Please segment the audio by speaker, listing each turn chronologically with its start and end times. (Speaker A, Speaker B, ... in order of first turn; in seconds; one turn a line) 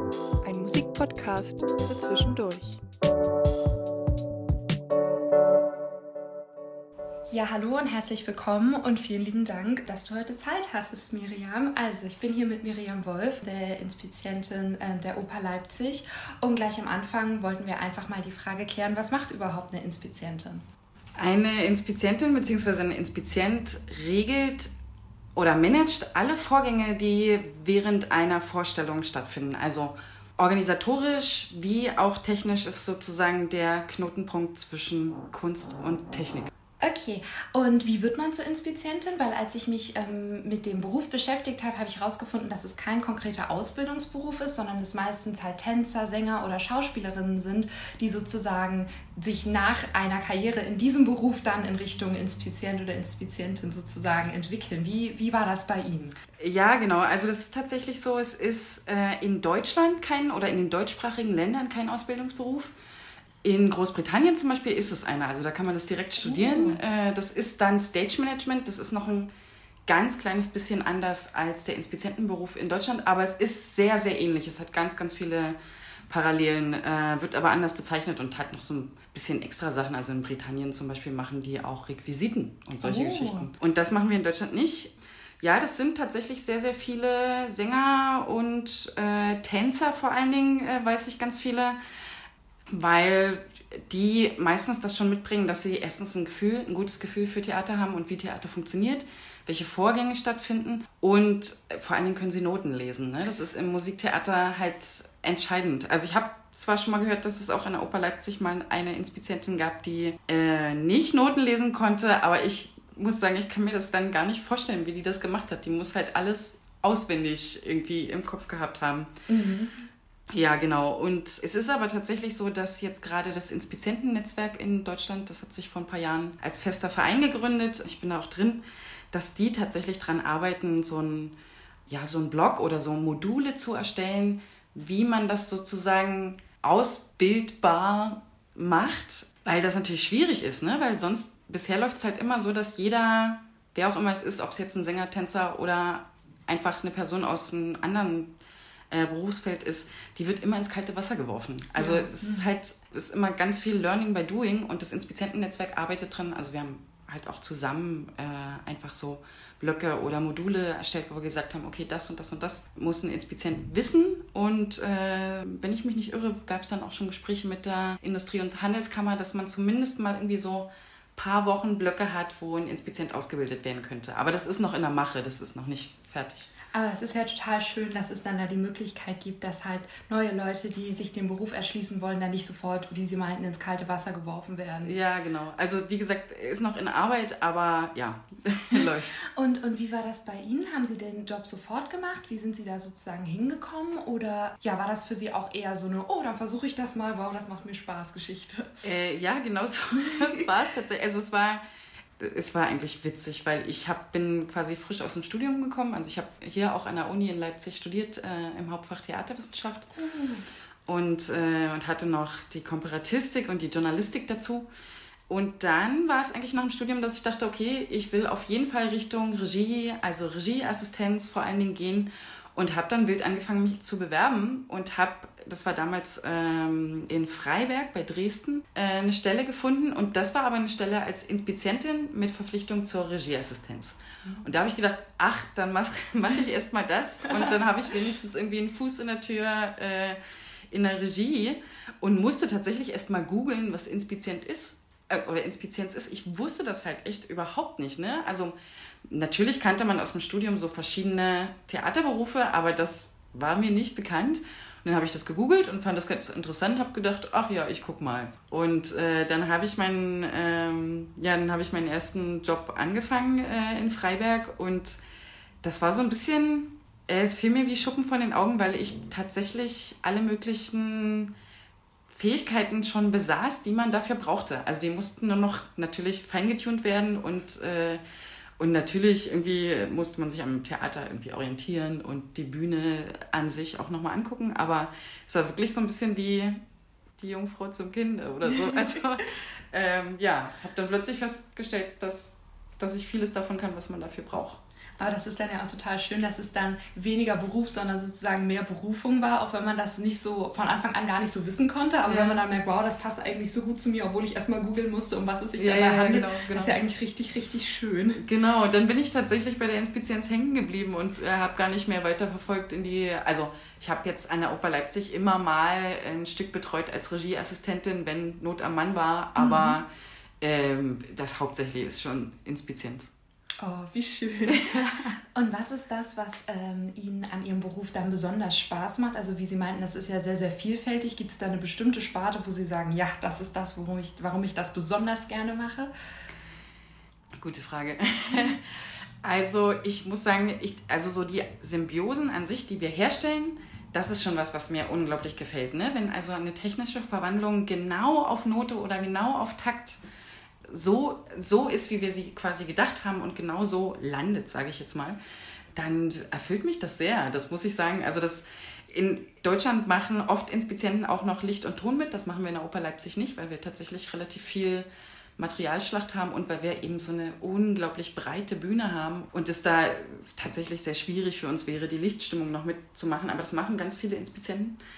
Speaker A: 0.4-2.8
Speaker B: 7.3-20.6
Speaker C: 21.2-24.7
Speaker C: 25.4-36.5
Speaker B: 36.8-56.2
Speaker C: 56.4-62.8
Speaker C: 63.4-69.3
Speaker B: 66.2-66.8
Speaker C: 69.8-75.6
Speaker C: 76.1-91.8
Speaker B: 82.8-83.5
Speaker C: 92.7-119.1
Speaker B: 119.3-119.8
Speaker C: 120.3-131.3
Speaker C: 131.9-148.3
Speaker C: 148.9-176.5
Speaker B: 151.8-152.5
Speaker B: 176.7-184.9
Speaker C: 184.8-189.2
Speaker B: 188.8-198.7
Speaker C: 198.8-201.6
Speaker C: 202.2-209.9
Speaker B: 209.9-210.4
Speaker C: 210.9-214.7
Speaker C: 215.3-240.2
Speaker C: 240.7-248.6
Speaker C: 249.1-265.0
Speaker C: 265.6-271.3
Speaker C: 272.1-278.0
Speaker C: 278.6-286.6
Speaker C: 287.2-294.6
Speaker B: 295.0-308.2
Speaker C: 302.1-302.4
Speaker C: 305.6-306.8
Speaker C: 308.2-319.9
Speaker B: 319.4-319.8
Speaker C: 320.4-323.1
Speaker B: 323.6-335.9
Speaker C: 337.4-338.6
Speaker C: 339.2-350.0
Speaker C: 350.6-355.2
Speaker C: 355.8-374.8